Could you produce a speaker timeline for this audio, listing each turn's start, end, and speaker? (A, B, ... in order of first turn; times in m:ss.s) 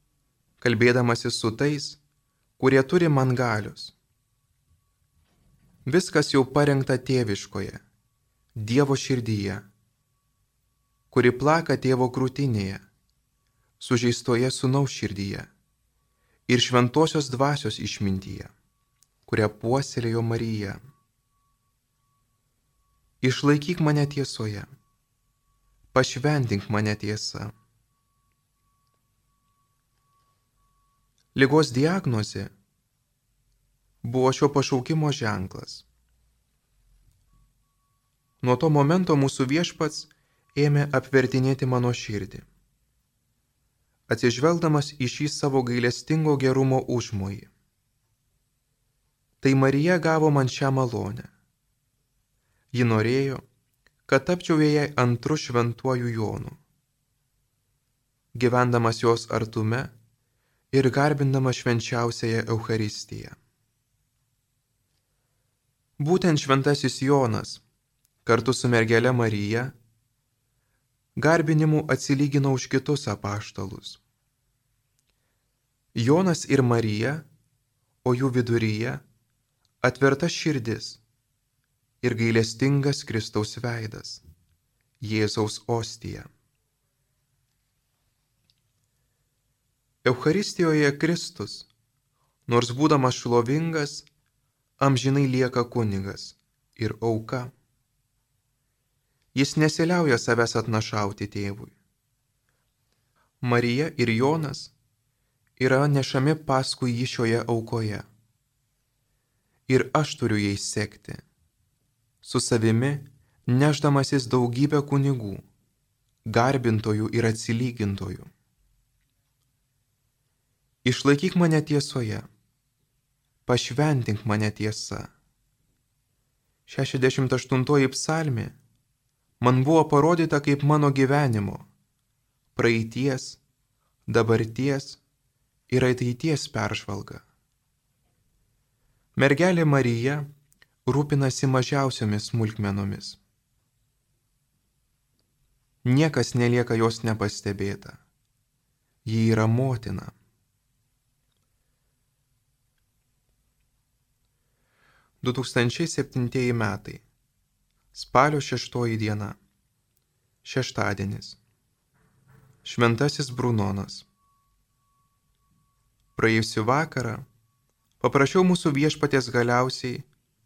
0:00.6-0:02.0 A
0:02.6-0:03.9 A
0:05.9-0:07.8 A
0:08.6-0:09.6 A
0:11.1-0:12.8 A
0:13.8-0:15.5 A
0:16.5-0:18.5 A
0:19.3-0:20.8 A
0:23.2-0:24.7 A
0:25.9-0:27.5 A
0:31.4-0:32.5 A
0:34.0-0:35.8 A
0:38.4-0:42.5 A
0:44.1-0:47.5 A
0:49.4-0:51.3 A
0:52.7-0:53.4 A
0:54.1-0:56.6 A
0:58.3-0:59.9 A
1:00.7-1:03.4 A
1:06.0-1:07.6 A
1:08.2-1:09.7 A
1:11.2-1:14.0 A
1:15.9-1:17.2 A
1:18.0-1:19.0 A
1:19.8-1:21.0 A
1:22.0-1:24.2 A
1:25.0-1:26.3 A
1:30.0-1:31.7 A
1:32.5-1:34.1 A
1:34.8-1:37.5 A
1:39.4-1:41.8 A
1:43.4-1:44.7 A
1:45.6-1:48.1 A
1:49.7-1:51.2 A
1:52.2-1:55.4 A
1:56.3-1:58.3 A
2:00.8-2:02.3 A
2:03.5-2:05.1 A
2:06.7-2:08.6 A
2:09.4-2:11.7 A
2:12.6-2:13.4 A
2:14.1-2:15.0 A
2:15.7-2:17.2 A
2:19.2-2:20.3 A
2:20.9-2:23.2 A
2:25.8-2:28.0 A
2:29.0-2:30.1 A
2:35.2-2:37.0 A
2:37.9-2:39.4 A
2:40.4-2:41.4 A
2:42.6-2:44.1 A
2:46.2-2:47.2 A
2:48.0-2:50.1 A